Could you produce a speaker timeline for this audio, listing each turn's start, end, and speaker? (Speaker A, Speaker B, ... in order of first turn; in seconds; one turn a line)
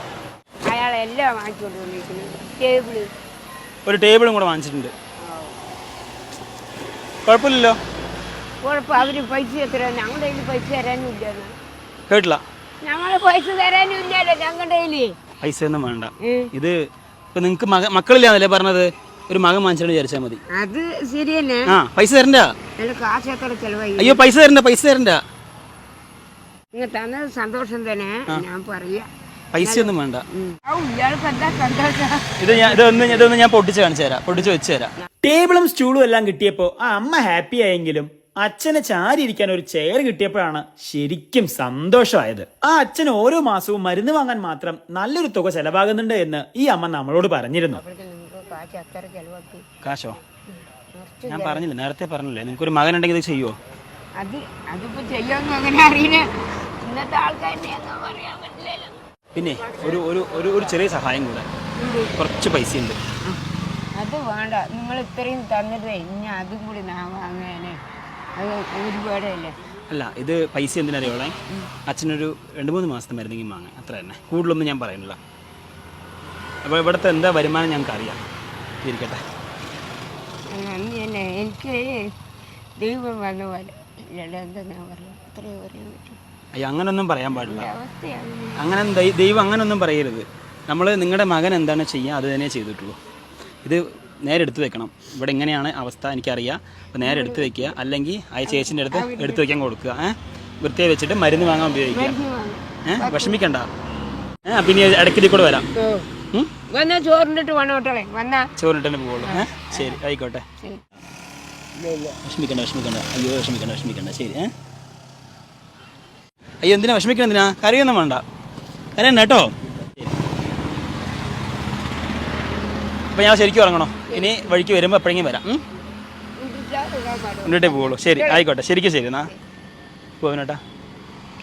Speaker A: 0.6-3.1
Speaker B: 3.9-4.9
Speaker A: 5.2-5.6
Speaker B: 7.2-7.8
Speaker A: 8.6-11.5
Speaker B: 12.1-12.4
Speaker A: 12.8-15.2
Speaker B: 15.4-16.8
Speaker A: 16.2-16.5
Speaker B: 17.3-20.4
Speaker A: 20.5-21.7
Speaker B: 21.7-22.5
Speaker A: 22.8-24.2
Speaker B: 24.0-25.2
Speaker A: 26.7-33.2
Speaker B: 29.5-30.2
Speaker B: 32.4-47.8
Speaker A: 47.7-49.6
Speaker B: 49.8-50.2
Speaker A: 50.5-51.6
Speaker B: 51.3-53.6
Speaker A: 54.2-56.3
Speaker A: 56.8-58.9
Speaker B: 59.3-61.5
Speaker A: 61.8-62.1
Speaker B: 62.1-63.0
Speaker A: 64.0-67.8
Speaker A: 68.3-69.5
Speaker B: 69.9-75.2
Speaker B: 76.6-78.2
Speaker B: 78.8-79.2
Speaker A: 80.5-82.1
Speaker A: 82.8-86.2
Speaker B: 86.5-87.7
Speaker A: 87.3-88.7
Speaker B: 88.6-93.0
Speaker B: 93.6-102.1
Speaker A: 97.0-97.7
Speaker A: 98.5-99.5
Speaker A: 101.9-103.4
Speaker B: 102.8-103.7
Speaker B: 104.5-105.7
Speaker A: 105.8-106.1
Speaker A: 106.7-108.5
Speaker B: 108.6-110.4
Speaker A: 109.2-110.0
Speaker B: 112.2-114.5
Speaker B: 116.6-118.2
Speaker B: 119.0-120.1
Speaker B: 123.1-125.6
Speaker A: 124.1-124.5
Speaker A: 126.4-128.5
Speaker B: 127.4-129.3
Speaker B: 130.2-130.6